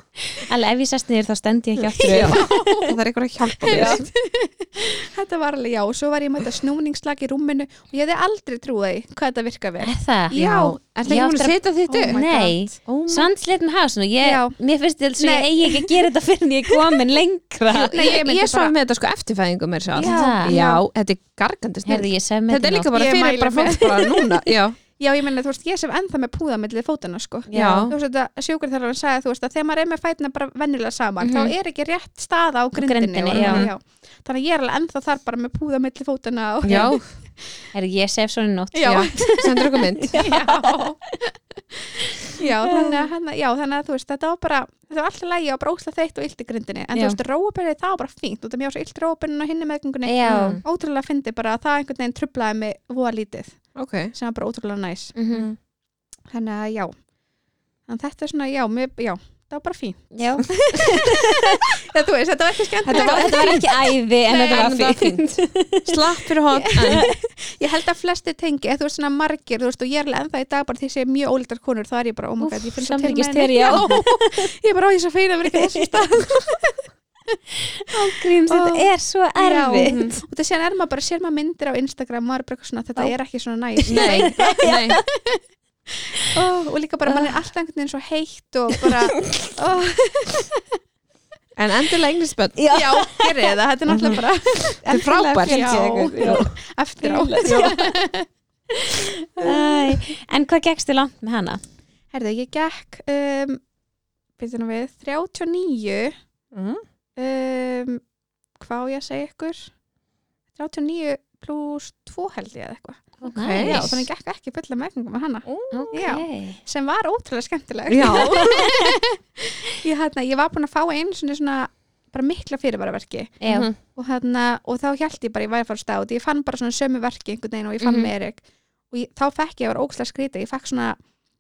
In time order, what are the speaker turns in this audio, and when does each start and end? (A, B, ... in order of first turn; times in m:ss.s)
0:00.3-0:02.7 A
0:01.8-0:04.1 B
0:02.0-0:11.2 C
0:03.7-0:04.0 A
0:09.8-0:10.4 A
0:10.3-0:12.2 B
0:11.1-0:18.0 A
0:11.9-0:12.8 C
0:12.9-0:13.3 B
0:14.2-0:14.6 C
0:15.2-0:16.1 C
0:17.7-0:24.8 B
0:17.9-0:18.7 C
0:19.9-0:20.8 C
0:20.0-0:20.6 A
0:21.8-0:23.0 A
0:22.9-0:24.3 C
0:25.0-0:37.0 C
0:27.5-0:27.9 A
0:27.5-0:27.9 B
0:31.2-0:31.5 A
0:32.8-0:33.7 A
0:33.3-0:33.7 B
0:36.6-0:37.1 B
0:36.7-0:36.9 A
0:37.7-0:41.1 A
0:38.7-0:39.5 C
0:38.9-0:40.2 B
0:40.1-0:53.6 C
0:42.6-0:43.1 A
0:46.9-0:47.2 A
0:50.0-0:50.6 A
0:50.3-0:50.6 B
0:53.8-0:54.1 B
0:54.2-0:55.2 C
0:55.2-0:55.5 A
0:55.3-0:55.6 B
0:56.3-0:56.9 C
0:57.9-1:04.8 C
1:00.1-1:01.6 A
1:02.8-1:03.6 B
1:02.9-1:06.0 A
1:04.3-1:07.1 B
1:06.6-1:16.8 C
1:06.8-1:07.1 A
1:12.4-1:14.5 A
1:15.5-1:15.9 A
1:17.8-1:20.0 A
1:18.0-1:25.4 C
1:19.8-1:20.2 B
1:23.8-1:25.0 A
1:23.9-1:25.0 B
1:25.9-1:30.6 C
1:27.1-1:27.4 A
1:31.6-1:32.6 B
1:32.6-1:33.5 A
1:32.7-1:39.9 C
1:33.9-1:34.2 B
1:34.8-1:36.5 A
1:34.8-1:36.6 B
1:37.0-1:37.9 A
1:37.4-1:37.8 B
1:39.4-1:41.6 A
1:42.1-1:43.6 C
1:44.4-1:46.2 C
1:46.5-1:46.8 B
1:47.2-1:48.0 C
1:48.6-1:49.7 C
1:50.6-2:08.4 C
1:53.2-1:54.0 A
1:53.3-1:54.0 B
1:55.5-1:56.0 B
1:55.7-1:56.6 A
1:57.9-1:58.6 B
1:58.0-1:58.9 A
2:03.4-2:03.7 A
2:03.5-2:03.8 B
2:07.8-2:08.1 A
2:08.9-2:11.0 C